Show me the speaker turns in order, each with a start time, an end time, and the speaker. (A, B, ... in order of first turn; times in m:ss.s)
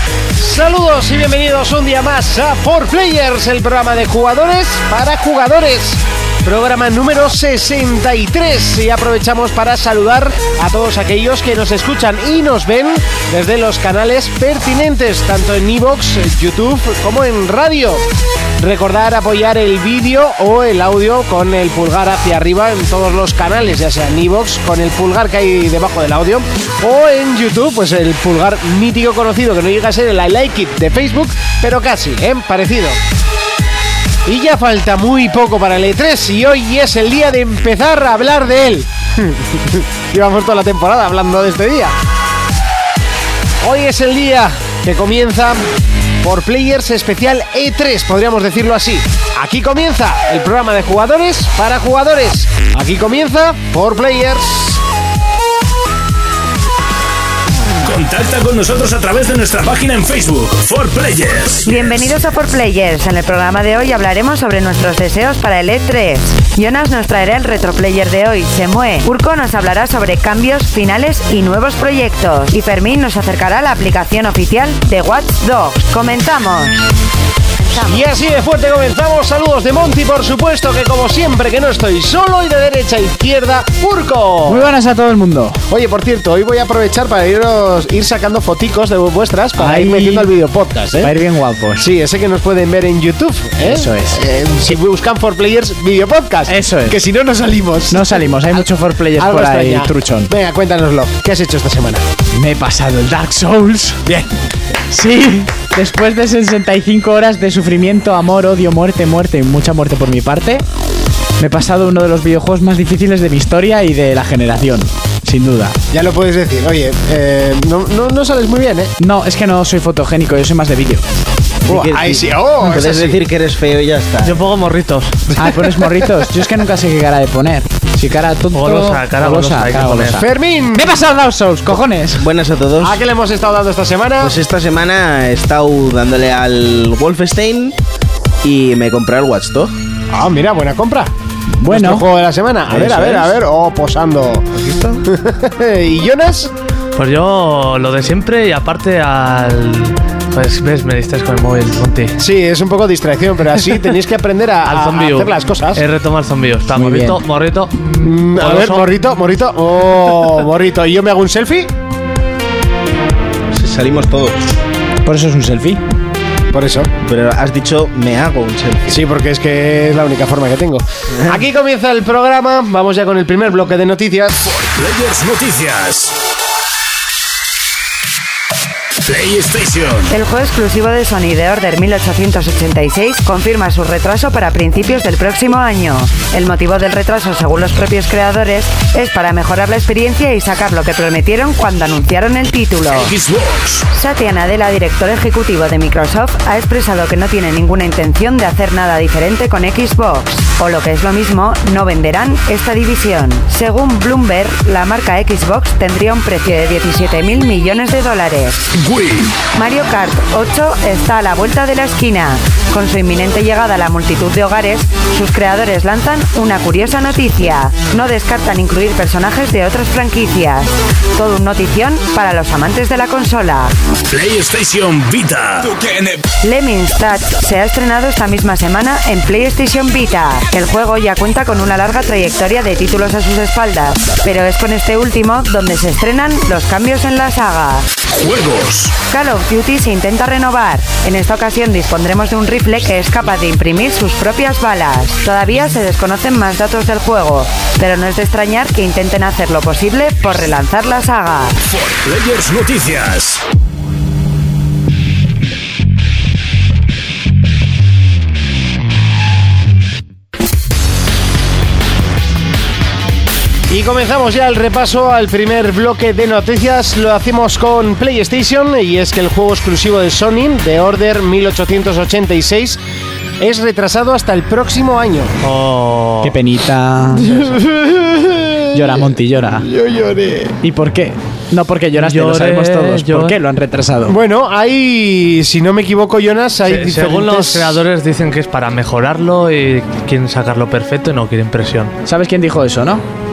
0:00.4-0:18.0 A
0:18.6-0:33.0 A
0:34.2-0:41.9 A
0:43.6-0:45.6 A
0:46.2-0:54.8 A
0:57.8-1:02.1 B
1:01.6-1:16.9 C
1:17.6-1:18.0 C
1:17.8-1:24.7 A
1:24.4-1:25.6 D
1:25.7-1:31.1 A
1:29.6-1:30.3 D
1:31.0-1:31.8 D
1:31.8-1:42.0 A
1:33.6-1:34.2 D
1:36.5-1:37.0 D
1:37.9-1:40.3 D
1:42.3-1:44.0 D
1:44.0-1:44.3 A
1:44.9-1:50.6 D
1:51.4-1:55.8 D
1:55.9-1:58.9 A
1:59.0-2:01.0 D
2:01.6-2:04.4 E
2:01.7-2:03.2 A
2:04.2-2:05.3 F
2:05.3-2:12.2 D
2:05.4-2:06.4 A
2:08.5-2:10.2 F
2:10.1-2:11.0 A
2:12.2-2:13.0 E
2:12.8-2:14.4 A
2:14.2-2:17.8 E
2:18.4-2:19.7 E
2:20.1-2:21.1 A
2:21.6-2:22.0 D
2:21.7-2:24.5 A
2:22.7-2:23.3 E
2:24.5-2:25.0 E
2:25.0-2:26.5 A
2:27.0-2:32.2 F
2:32.2-2:35.8 A
2:34.6-2:38.9 F
2:36.7-2:37.2 D
2:38.0-2:41.7 A
2:43.5-2:44.4 E
2:45.0-2:45.8 D
2:46.5-2:46.9 A
2:47.0-2:49.0 E
2:48.9-2:54.5 A
2:54.4-2:56.1 B
2:59.0-3:00.1 B
3:00.1-3:13.1 C
3:12.9-3:13.8 B
3:13.9-3:28.7 C
3:28.9-3:29.3 B
3:29.4-3:43.7 C
3:44.1-3:45.9 B
3:46.4-3:57.9 C
3:58.1-3:59.0 B
3:59.1-4:11.6 C
4:11.7-4:13.4 B
4:23.7-4:32.8 A
4:33.4-4:35.3 A
4:35.4-4:36.3 F
4:36.2-4:37.3 D
4:37.2-4:40.6 A
4:37.3-4:37.5 F
4:38.7-4:39.7 D
4:40.6-4:44.2 D
4:41.9-4:43.4 F
4:44.0-4:47.8 A
4:46.6-4:51.9 F
4:52.0-4:53.0 D